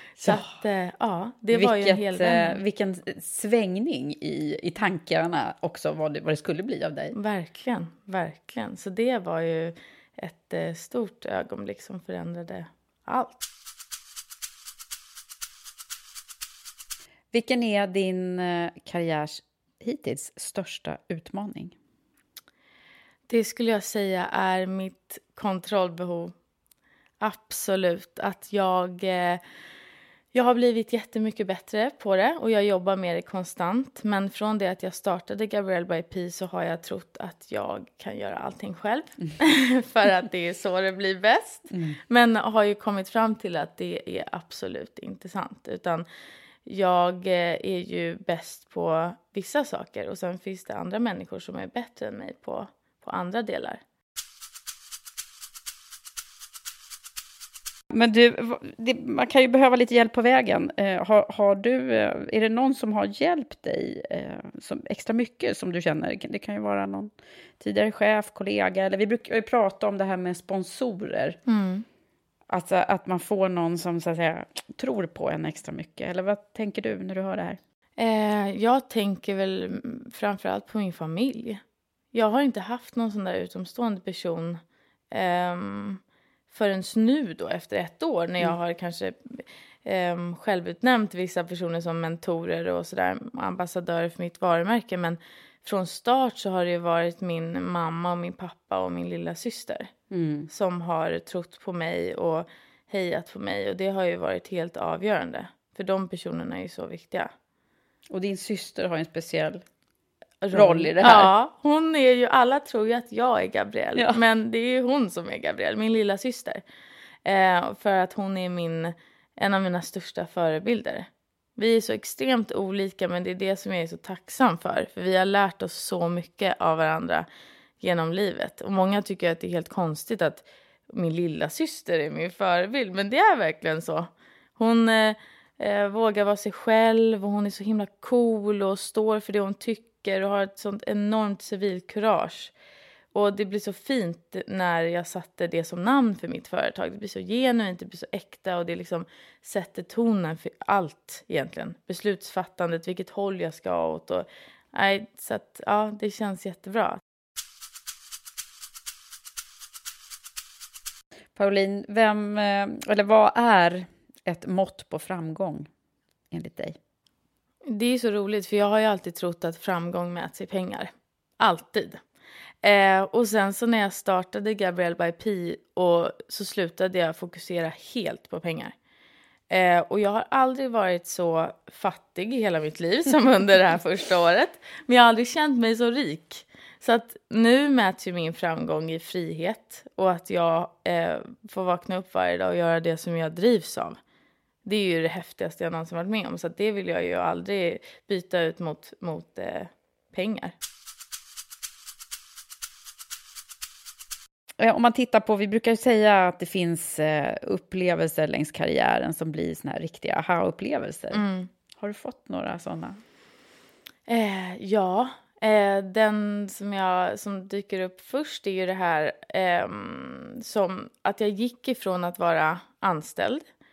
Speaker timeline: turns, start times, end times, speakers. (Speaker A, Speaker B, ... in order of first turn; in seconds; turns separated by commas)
Speaker A: 0.2-2.6, Speaker B: 1.5-7.2, Speaker A: 7.1-13.4, Speaker B: 17.3-21.7, Speaker A: 23.3-26.3, Speaker A: 27.2-29.4, Speaker A: 30.3-46.0, Speaker B: 41.7-42.0, Speaker A: 46.7-53.8, Speaker B: 57.9-71.4, Speaker A: 71.5-71.8, Speaker B: 72.5-77.6, Speaker A: 78.0-81.6, Speaker A: 82.1-84.6, Speaker A: 85.1-99.9, Speaker B: 100.1-100.5, Speaker A: 100.5-107.3, Speaker B: 108.1-109.6, Speaker A: 110.4-116.6, Speaker B: 110.5-111.3, Speaker B: 114.0-114.2, Speaker A: 117.3-127.3, Speaker A: 127.8-142.5, Speaker A: 143.1-157.0, Speaker B: 161.4-165.7, Speaker B: 166.3-166.8, Speaker A: 167.7-172.0, Speaker A: 172.6-178.8, Speaker A: 179.5-194.0, Speaker A: 194.7-200.5, Speaker B: 204.6-211.2, Speaker A: 211.1-211.5, Speaker B: 211.8-213.0, Speaker A: 214.1-223.4